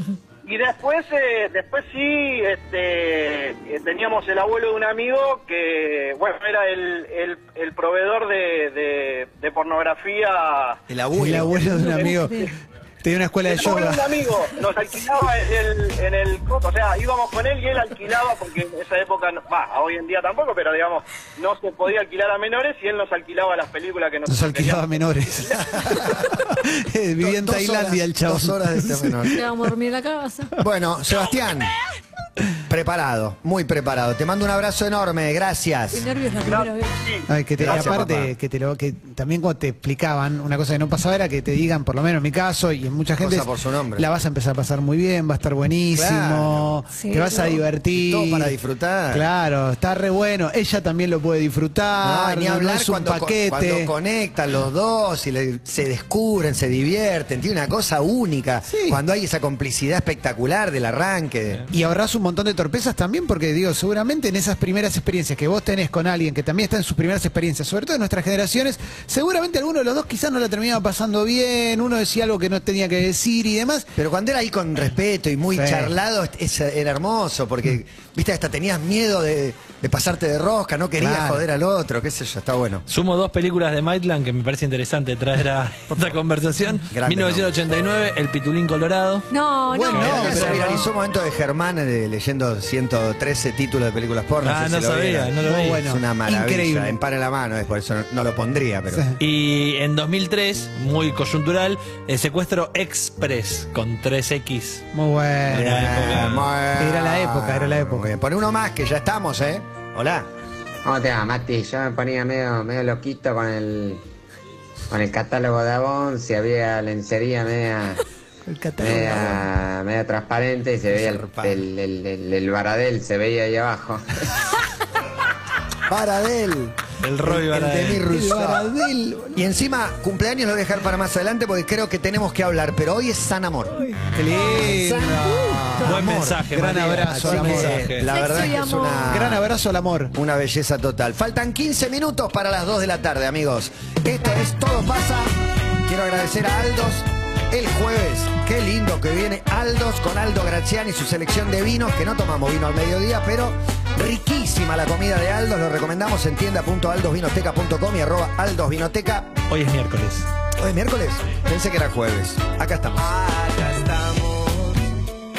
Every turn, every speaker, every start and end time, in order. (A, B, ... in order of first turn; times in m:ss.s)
0:00.4-0:10.8 A
0:10.9-0:11.6 B
0:11.1-0:14.5 C
0:11.6-0:12.2 A
0:11.7-0:12.5 D
0:13.4-0:24.9 A
0:24.3-0:29.2 C
0:26.0-0:26.2 A
0:27.2-0:29.4 B
0:29.3-0:30.5 D
0:30.6-0:31.7 B
0:32.7-0:36.1 B
0:35.9-0:37.0 D
0:36.4-0:38.0 A
0:37.3-0:48.5 C
0:37.6-0:38.3 B
0:43.2-0:44.1 B
0:45.9-0:46.8 B
0:46.9-0:47.6 D
0:47.3-0:49.2 B
0:49.1-0:53.9 C
0:52.0-1:01.6 B
0:58.7-0:59.0 C
1:01.7-1:13.9 C
1:14.0-1:22.9 B
1:15.6-1:15.9 C
1:21.0-1:21.4 C
1:22.9-1:29.3 E
1:26.9-1:27.5 B
1:29.3-1:30.7 D
1:29.7-1:30.8 C
1:29.9-1:39.1 B
1:30.3-1:30.6 E
1:34.4-1:35.8 E
1:35.4-1:37.0 C
1:38.9-1:39.2 C
1:39.2-1:44.8 E
1:44.9-1:46.0 C
1:45.5-1:46.5 E
1:45.5-1:50.3 B
1:46.8-1:48.1 C
1:50.8-1:54.0 F
1:54.9-1:58.0 F
1:58.5-1:59.4 C
1:58.8-1:59.4 B
1:58.8-2:04.0 F
2:00.9-2:01.7 B
2:05.9-2:13.8 B
2:07.0-2:08.0 E
2:08.1-2:09.3 C
2:14.1-2:17.9 C
2:14.5-2:16.4 B
2:15.8-2:18.1 E
2:17.0-2:19.5 B
2:18.1-2:19.3 D
2:19.1-2:20.1 C
2:20.1-2:25.3 B
2:25.8-2:39.4 B
2:39.5-2:40.3 E
2:40.6-2:43.0 B
2:43.0-2:44.9 G